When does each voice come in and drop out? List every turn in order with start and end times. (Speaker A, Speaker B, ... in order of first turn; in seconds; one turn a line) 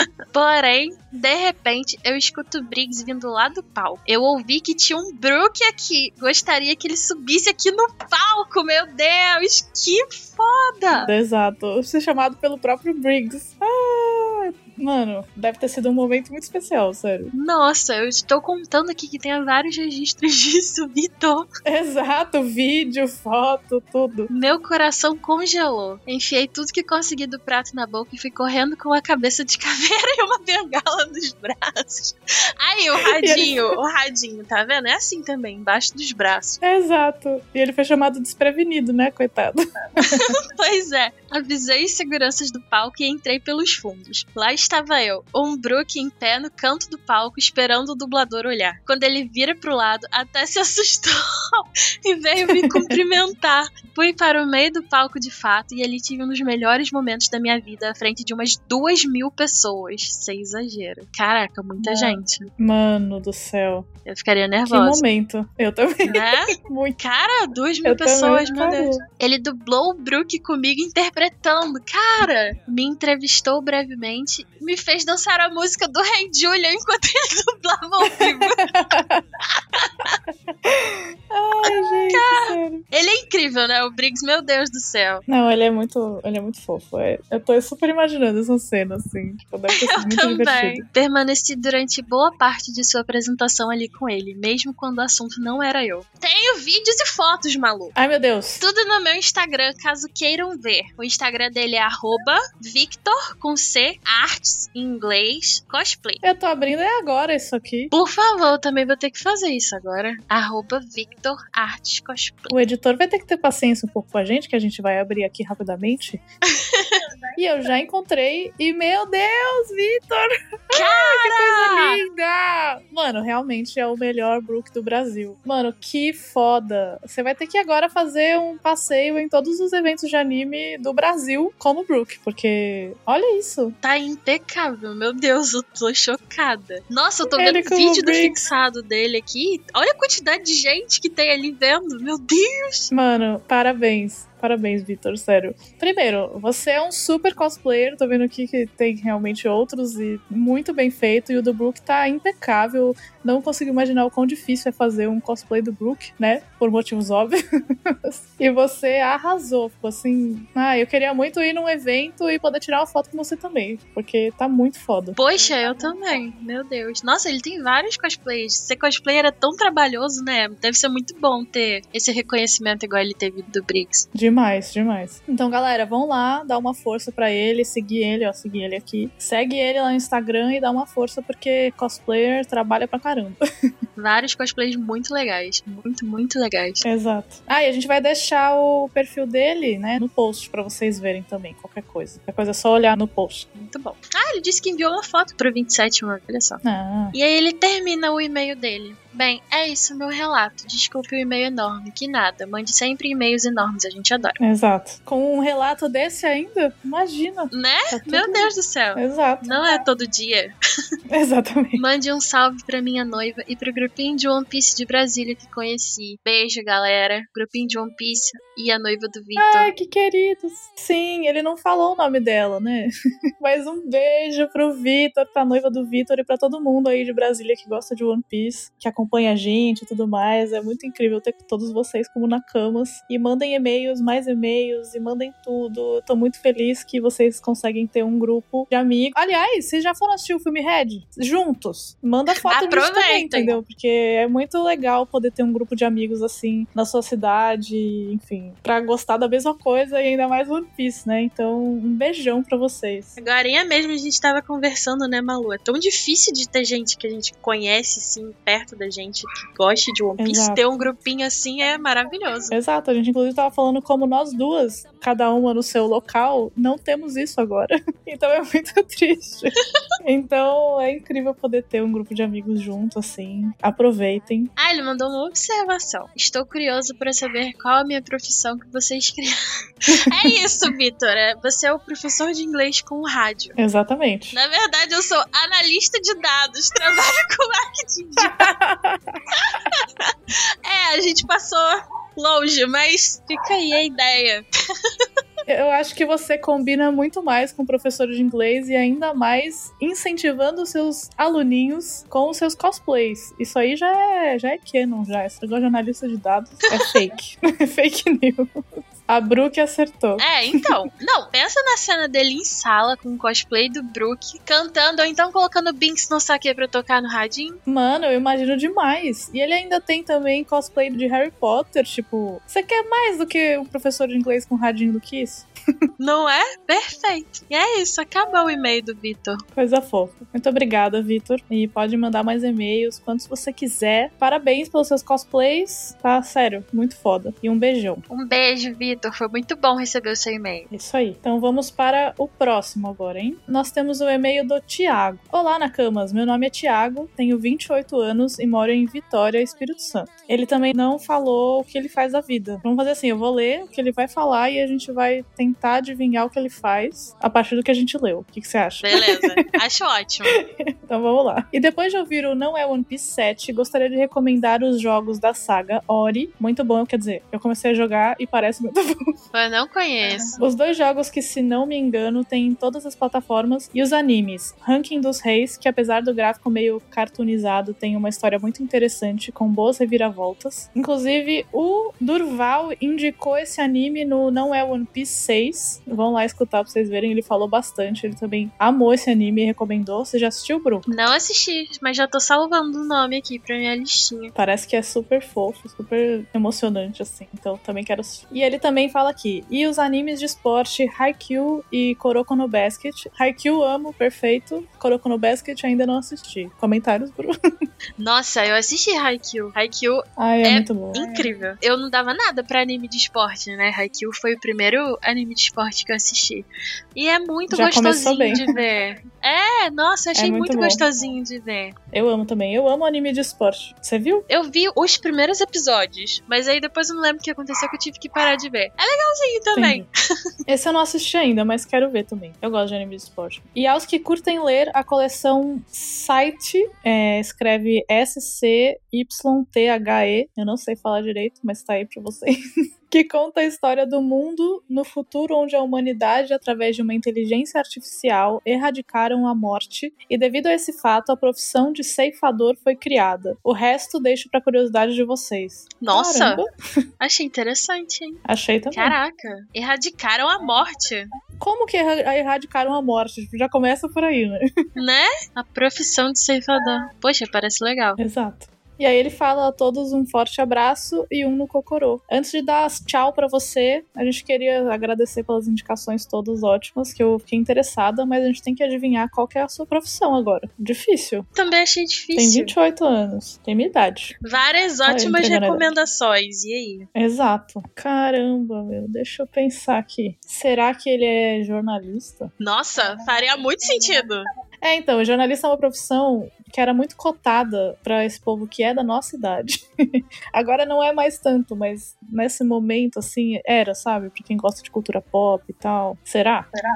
Speaker A: 0.3-11.1
Speaker B: 10.9-17.3
Speaker A: 17.3-21.5
Speaker B: 21.7-24.3
Speaker A: 24.3-36.6
Speaker B: 33.0-33.6
Speaker B: 36.6-40.4
Speaker A: 40.0-62.5
Speaker B: 61.8-63.9
Speaker A: 64.0-65.0
Speaker B: 64.7-67.0
Speaker A: 66.1-78.7
Speaker B: 67.8-69.0
Speaker B: 78.3-79.2
Speaker A: 79.8-80.1
Speaker B: 80.7-82.8
Speaker A: 82.1-85.2
Speaker B: 85.3-90.8
Speaker A: 89.7-98.0
Speaker B: 98.0-98.6
Speaker A: 98.6-106.2
Speaker B: 106.2-107.9
Speaker A: 107.9-112.5
Speaker B: 112.5-116.2
Speaker A: 116.5-117.0
Speaker B: 117.4-133.8
Speaker A: 120.7-122.0
Speaker A: 133.8-142.9
Speaker B: 137.3-138.4
Speaker B: 142.9-166.0
Speaker A: 165.2-174.1
Speaker B: 174.1-183.4
Speaker A: 184.0-186.8
Speaker B: 186.8-193.5
Speaker A: 193.6-196.6
Speaker B: 196.6-197.2
Speaker A: 197.1-204.4
Speaker B: 204.4-209.6
Speaker A: 207.5-210.5
Speaker B: 211.1-211.8
Speaker A: 211.8-219.7
Speaker B: 219.4-253.2
Speaker A: 242.4-243.6
Speaker A: 253.2-262.5
Speaker B: 260.2-260.6
Speaker B: 262.5-274.5
Speaker A: 274.6-279.4
Speaker B: 279.9-280.3
Speaker A: 280.0-283.6
Speaker B: 283.6-284.4
Speaker A: 284.3-288.5
Speaker B: 288.2-289.2
Speaker A: 289.5-289.9
Speaker A: 290.6-294.4
Speaker B: 295.5-308.5
Speaker B: 309.1-310.3
Speaker A: 310.2-317.6
Speaker B: 317.7-325.5
Speaker A: 326.0-329.4
Speaker B: 329.5-338.0
Speaker A: 338.1-340.7
Speaker B: 340.7-359.3
Speaker A: 358.8-360.4
Speaker B: 360.3-369.1
Speaker A: 369.3-370.4
Speaker B: 370.3-390.9
Speaker A: 390.9-394.3
Speaker B: 394.4-407.3
Speaker A: 408.0-421.8
Speaker B: 410.2-411.1
Speaker B: 417.5-418.5
Speaker B: 420.1-420.9
Speaker B: 421.9-424.3
Speaker A: 424.3-429.9
Speaker B: 429.6-429.9
Speaker B: 430.5-456.5
Speaker A: 455.8-456.4
Speaker A: 457.0-461.1
Speaker B: 458.3-459.0
Speaker B: 461.4-464.4
Speaker A: 464.8-468.0
Speaker B: 468.0-481.3
Speaker A: 481.4-482.5
Speaker B: 482.1-484.2
Speaker A: 484.2-486.9
Speaker B: 484.9-485.6
Speaker B: 486.9-492.3
Speaker A: 492.4-494.3
Speaker B: 494.6-506.5